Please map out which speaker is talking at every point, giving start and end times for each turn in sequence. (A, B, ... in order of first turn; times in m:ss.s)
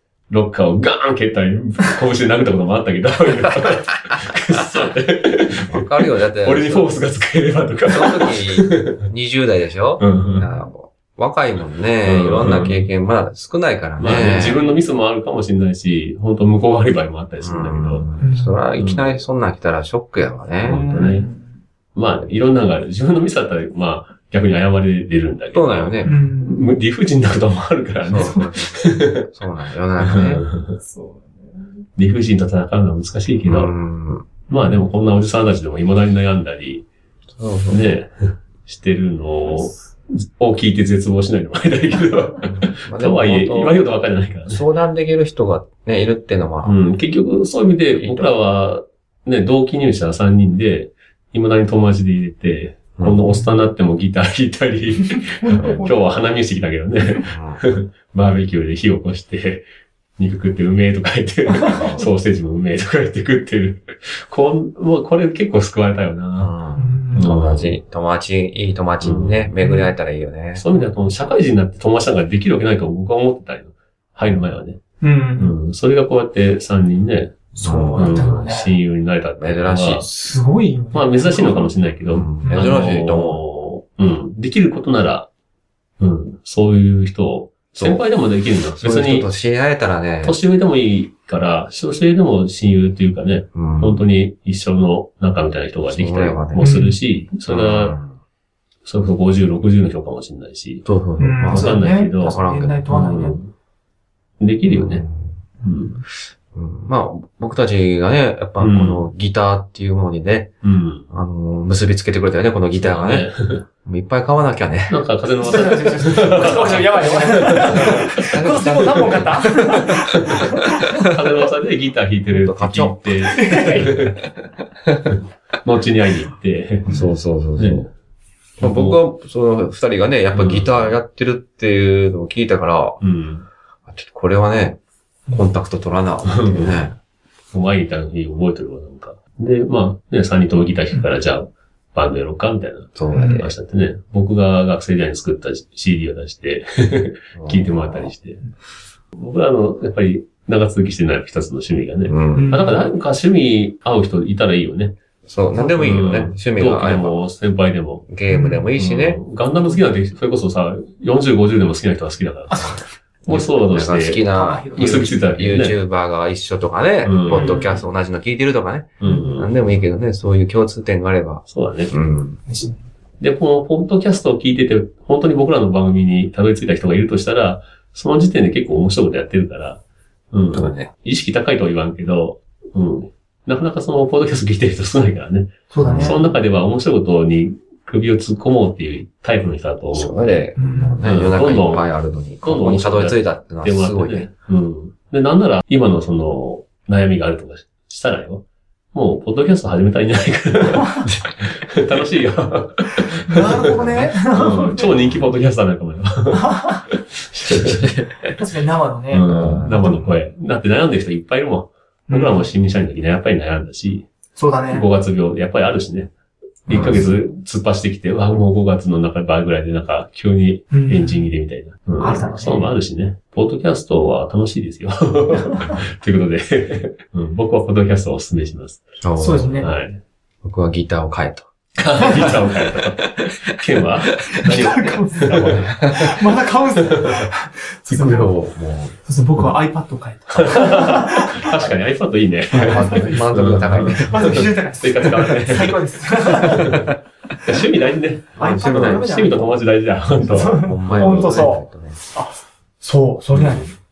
0:00.3-0:09.0 A
0:05.6-0:06.9 B
0:07.9-0:14.6 B
0:10.0-0:10.5 A
0:12.0-0:12.9 A
0:14.0-0:18.0 A
0:17.4-0:20.8 B
0:18.2-0:18.6 C
0:18.8-0:19.1 A
0:20.6-0:21.2 A
0:20.6-0:21.5 C
0:21.9-0:29.3 A
0:25.5-0:26.1 B
0:26.0-0:26.7 C
0:28.0-0:30.4 B
0:28.2-0:28.5 C
0:30.0-0:30.8 A
0:30.8-0:31.6 C
0:32.0-0:33.7 A
0:33.5-0:34.4 B
0:34.5-0:36.8 A
0:37.4-0:37.8 B
0:37.7-0:44.6 A
0:42.4-0:43.7 B
0:44.5-0:46.8 B
0:46.6-0:59.6 A
0:47.9-0:48.3 B
0:53.0-0:53.2 B
0:55.1-0:56.0 C
0:57.2-0:57.6 B
1:00.2-1:06.5 A
1:06.4-1:10.6 B
1:06.8-1:07.2 C
1:07.1-1:07.8 A
1:09.0-1:09.5 A
1:09.6-1:09.9 C
1:10.6-1:14.8 A
1:15.0-1:15.5 C
1:15.4-1:20.1 A
1:17.5-1:18.3 B
1:17.6-1:18.7 C
1:19.4-1:20.0 B
1:20.0-1:21.7 C
1:20.9-1:25.3 A
1:22.1-1:23.4 B
1:22.4-1:22.8 C
1:26.0-1:29.3 A
1:27.8-1:28.0 B
1:28.8-1:30.4 B
1:30.2-1:38.0 A
1:33.5-1:34.0 B
1:35.9-1:36.7 B
1:36.6-1:37.0 C
1:37.5-1:38.1 B
1:38.8-1:40.8 A
1:40.8-1:43.1 B
1:41.2-1:43.4 C
1:41.4-1:43.5 A
1:44.4-1:45.0 A
1:44.6-1:45.3 B
1:45.6-1:46.0 A
1:46.5-1:50.5 B
1:48.6-1:49.1 A
1:50.6-1:51.0 A
1:51.1-1:55.0 B
1:52.7-1:53.6 A
1:54.9-1:58.6 A
1:55.4-2:01.2 C
1:56.2-2:00.2 B
2:00.1-2:00.4 A
2:01.0-2:04.2 A
2:02.3-2:03.2 B
2:03.2-2:04.0 C
2:03.8-2:04.1 B
2:04.9-2:05.1 B
2:05.6-2:07.0 A
2:06.9-2:07.9 B
2:07.6-2:07.9 A
2:08.6-2:13.0 B
2:08.6-2:09.0 A
2:10.3-2:11.0 A
2:13.0-2:13.4 A
2:13.9-2:16.9 B
2:16.2-2:16.9 A
2:17.5-2:28.4 A
2:23.0-2:23.5 B
2:23.1-2:23.4 C
2:27.4-2:28.1 B
2:29.1-2:35.0 A
2:32.1-2:32.6 B
2:32.4-2:32.8 C
2:35.3-2:37.2 B
2:35.6-2:38.1 A
2:38.1-2:39.2 B
2:38.3-2:38.7 C
2:38.7-2:45.8 A
2:42.5-2:42.8 C
2:43.3-2:52.4 B
2:44.3-2:45.2 C
2:47.0-2:47.8 A
2:47.3-2:47.7 C
2:49.0-2:49.5 A
2:51.5-2:51.9 A
2:52.5-2:52.8 C
2:53.2-2:59.8 A
3:00.3-3:10.4 A
3:00.5-3:00.9 B
3:05.7-3:06.3 C
3:05.8-3:06.2 B
3:09.9-3:14.3 B
3:10.6-3:11.0 C
3:11.0-3:11.9 A
3:12.4-3:27.9 A
3:22.9-3:24.9 C
3:23.6-3:24.1 B
3:26.3-3:26.8 C
3:27.4-3:28.1 B
3:28.2-3:29.3 C
3:29.1-3:34.1 A
3:29.3-3:30.0 B
3:32.1-3:32.5 C
3:34.4-3:34.9 C
3:34.7-3:36.1 A
3:36.7-3:49.0 A
3:36.7-3:37.0 B
3:36.7-3:37.1 C
3:40.7-3:41.3 C
3:42.0-3:42.7 C
3:45.3-3:45.8 C
3:49.0-3:49.7 B
3:49.2-3:49.7 C
3:49.6-3:50.0 A
3:50.4-3:51.5 B
3:51.8-3:55.6 A
3:52.0-3:53.3 B
3:54.3-3:58.3 C
3:55.3-3:56.2 B
3:56.9-3:57.3 A
3:57.9-3:58.9 B
3:59.0-4:01.5 C
4:00.4-4:05.8 A
4:02.5-4:04.5 B
4:02.8-4:03.1 C
4:04.0-4:06.9 C
4:06.4-4:06.9 A
4:06.6-4:06.9 B
4:07.4-4:11.5 A
4:08.4-4:09.0 B
4:08.4-4:09.6 C
4:10.2-4:13.7 C
4:10.4-4:12.0 B
4:13.3-4:13.7 A